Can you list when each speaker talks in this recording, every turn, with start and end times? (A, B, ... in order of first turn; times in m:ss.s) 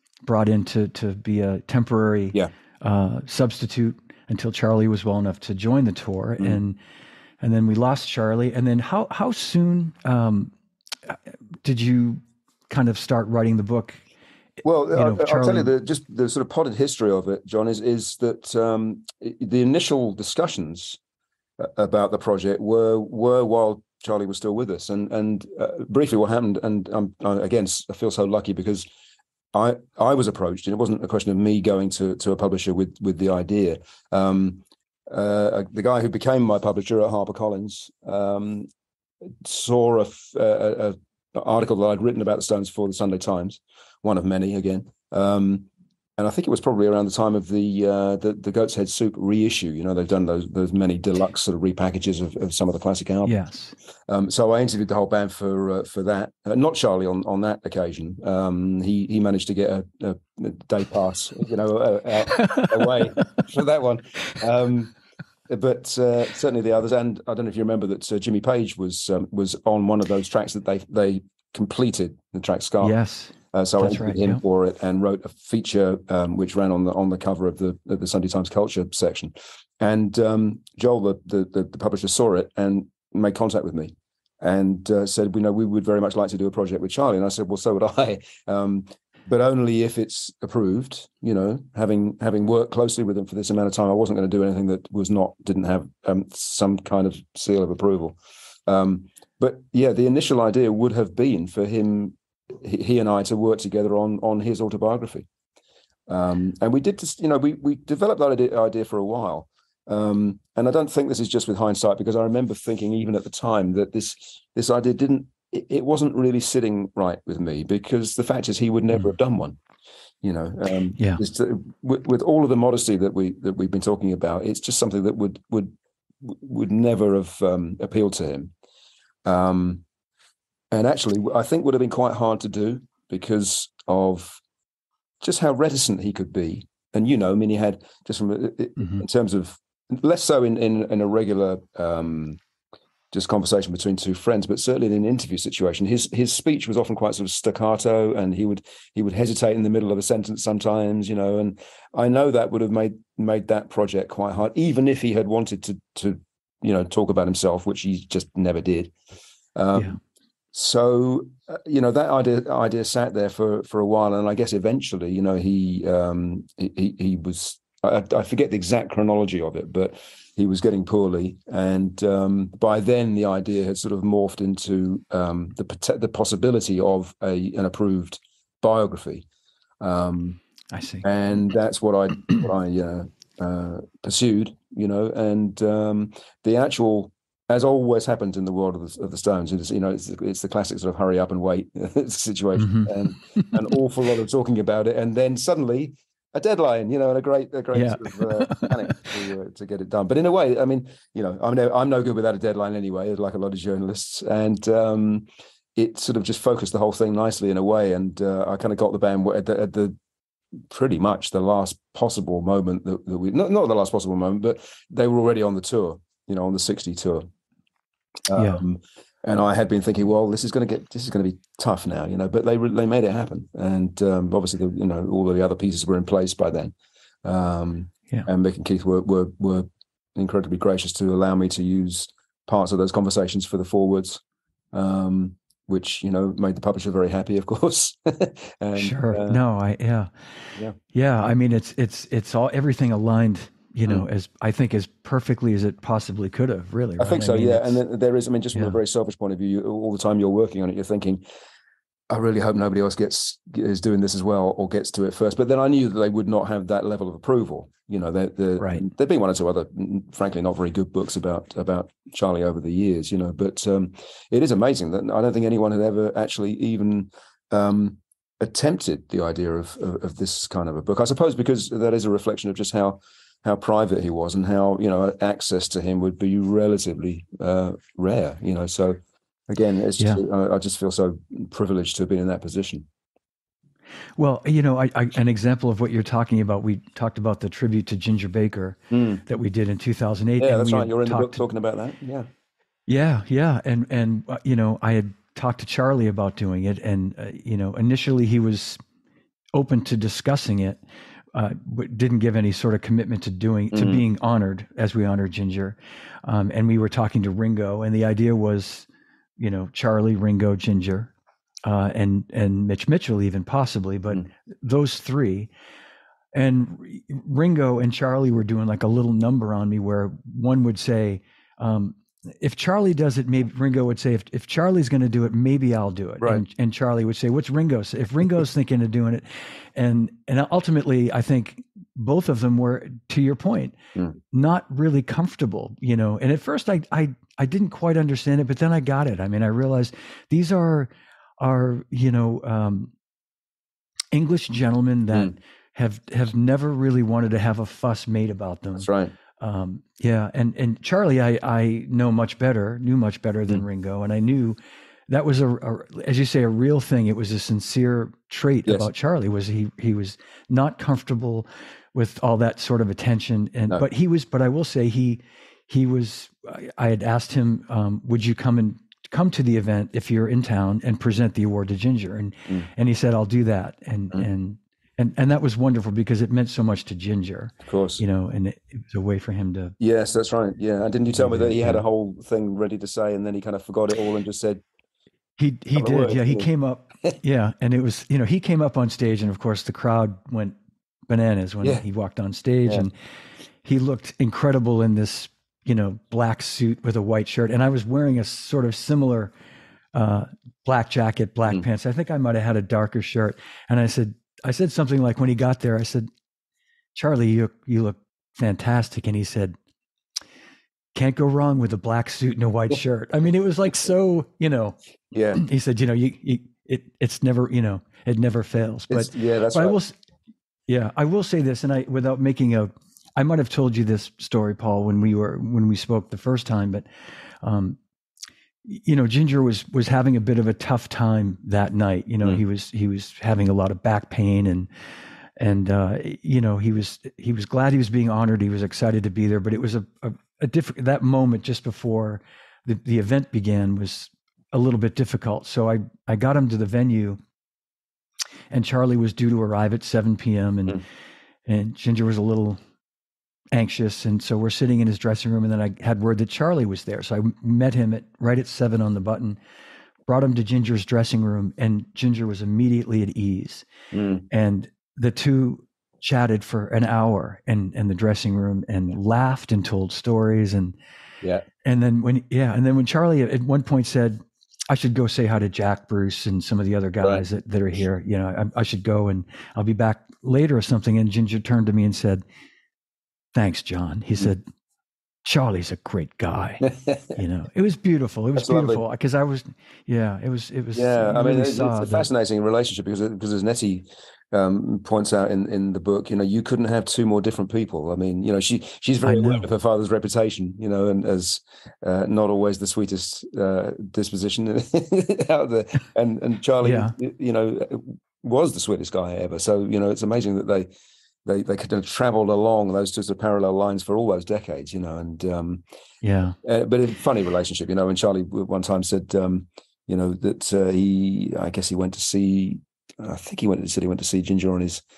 0:00.2-0:06.8 A
0:07.4-0:10.5 A
0:11.1-0:14.0 A
0:14.6-0:21.0 B
0:14.9-0:15.7 A
0:21.6-0:28.8 B
0:29.5-0:38.7 B
0:39.4-0:53.3 B
0:53.2-0:53.7 A
0:54.1-1:04.9 B
1:02.3-1:03.4 A
1:05.5-1:12.9 B
1:12.8-1:14.4 A
1:13.5-1:45.3 B
1:46.1-1:59.6 B
2:00.2-2:05.7 B
2:06.2-2:08.5 B
2:09.2-2:09.8 B
2:10.7-2:14.4 B
2:15.2-2:22.4 B
2:18.8-2:19.0 A
2:23.1-2:38.9 B
2:39.5-2:40.0 B
2:40.5-2:59.2 B
2:59.8-3:00.4 B
3:00.7-3:01.0 A
3:01.0-3:30.0 B
3:12.6-3:13.6 A
3:17.7-3:19.0 A
3:30.7-3:37.2 B
3:38.3-3:54.2 B
3:38.3-3:38.6 A
3:54.7-3:59.4 B
3:58.7-4:00.1 A
4:00.9-4:07.8 A
4:07.0-4:11.2 B
4:12.1-4:42.8 B
4:18.6-4:18.8 A
4:44.2-4:51.4 A
4:48.9-4:49.2 B
4:50.4-4:52.3 B
4:52.9-4:58.8 A
4:59.5-5:00.8 A
5:01.3-5:08.9 A
5:03.7-5:04.0 B
5:09.4-5:11.1 A
5:11.6-5:15.5 A
5:16.3-5:29.2 A
5:29.7-5:33.7 A
5:34.3-5:42.9 A
5:44.1-5:48.9 A
5:48.8-5:49.1 B
5:49.4-5:54.6 A
5:55.1-6:19.7 A
6:17.6-6:18.0 B
6:19.8-6:24.6 B
6:21.2-6:21.8 A
6:25.4-6:30.6 A
6:25.7-6:26.5 B
6:31.1-6:32.9 A
6:33.6-6:39.3 A
6:39.9-6:46.1 A
6:46.9-6:49.5 A
6:50.9-6:54.8 A
6:55.1-6:55.4 B
6:55.3-7:00.0 A
6:58.9-6:59.8 B
7:00.7-7:06.8 A
7:07.4-7:07.8 A
7:08.6-7:14.7 A
7:15.4-7:27.2 A
7:28.5-7:30.8 A
7:31.5-7:32.6 A
7:33.5-7:39.4 A
7:40.1-7:43.6 A
7:43.9-7:44.2 B
7:44.3-7:50.7 A
7:51.6-8:02.2 A
8:03.3-8:04.4 A
8:05.2-8:06.6 A
8:06.6-8:07.1 B
8:07.2-8:12.1 A
8:08.4-8:08.8 B
8:10.7-8:30.7 B
8:19.0-8:19.4 A
8:26.6-8:26.9 A
8:31.2-8:35.6 B
8:36.0-8:36.3 A
8:36.4-8:44.8 B